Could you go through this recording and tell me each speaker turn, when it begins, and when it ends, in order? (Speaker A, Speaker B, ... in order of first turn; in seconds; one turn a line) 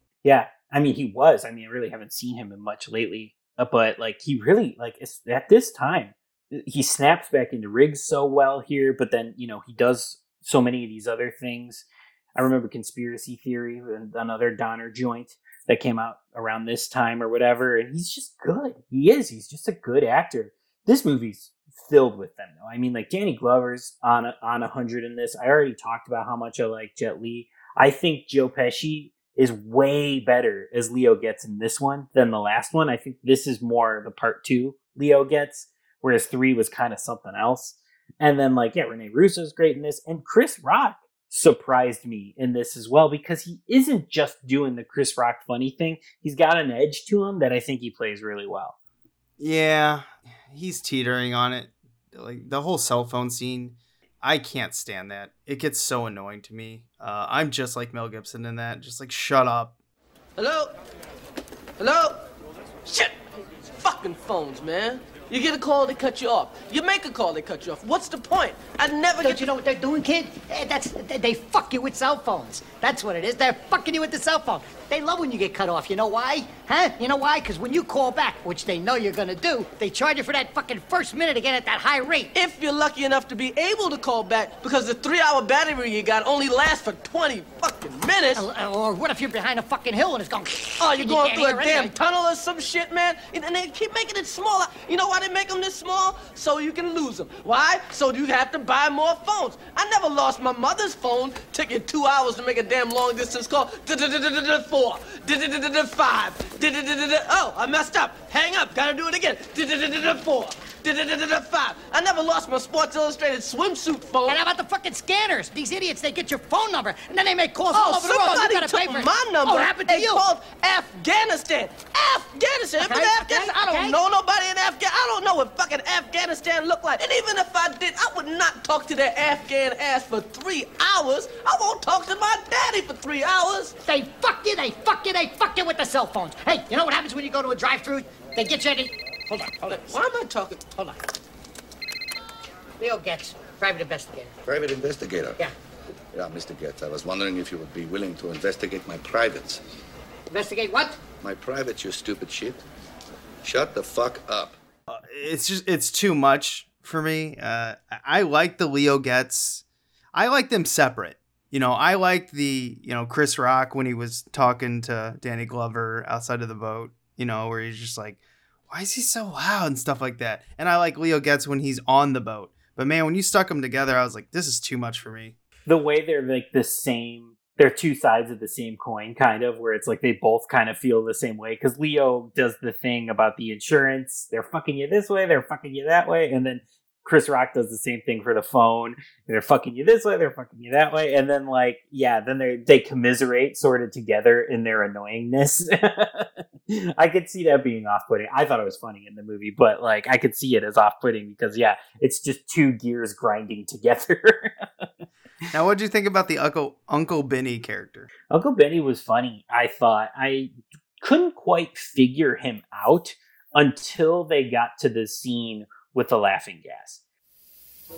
Speaker A: 0.2-48.8
Speaker B: 49.4-59.8
Speaker C: 60.4-60.7
Speaker C: 61.8-62.2
Speaker C: 62.8-69.5
Speaker D: 69.2-82.3
Speaker C: 82.3-88.5
Speaker D: 88.3-91.9
Speaker C: 90.7-114.4
Speaker D: 114.2-120.2
Speaker C: 117.7-133.8
Speaker D: 122.8-124.0
Speaker D: 133.8-140.0
Speaker C: 139.6-141.0
Speaker D: 142.8-144.3
Speaker E: 144.4-145.4
Speaker E: 146.1-149.6
Speaker D: 150.3-151.0
Speaker E: 151.2-152.6
Speaker E: 153.4-154.6
Speaker B: 154.9-175.3
Speaker A: 175.7-204.8
Speaker B: 205.5-208.1
Speaker A: 208.3-217.0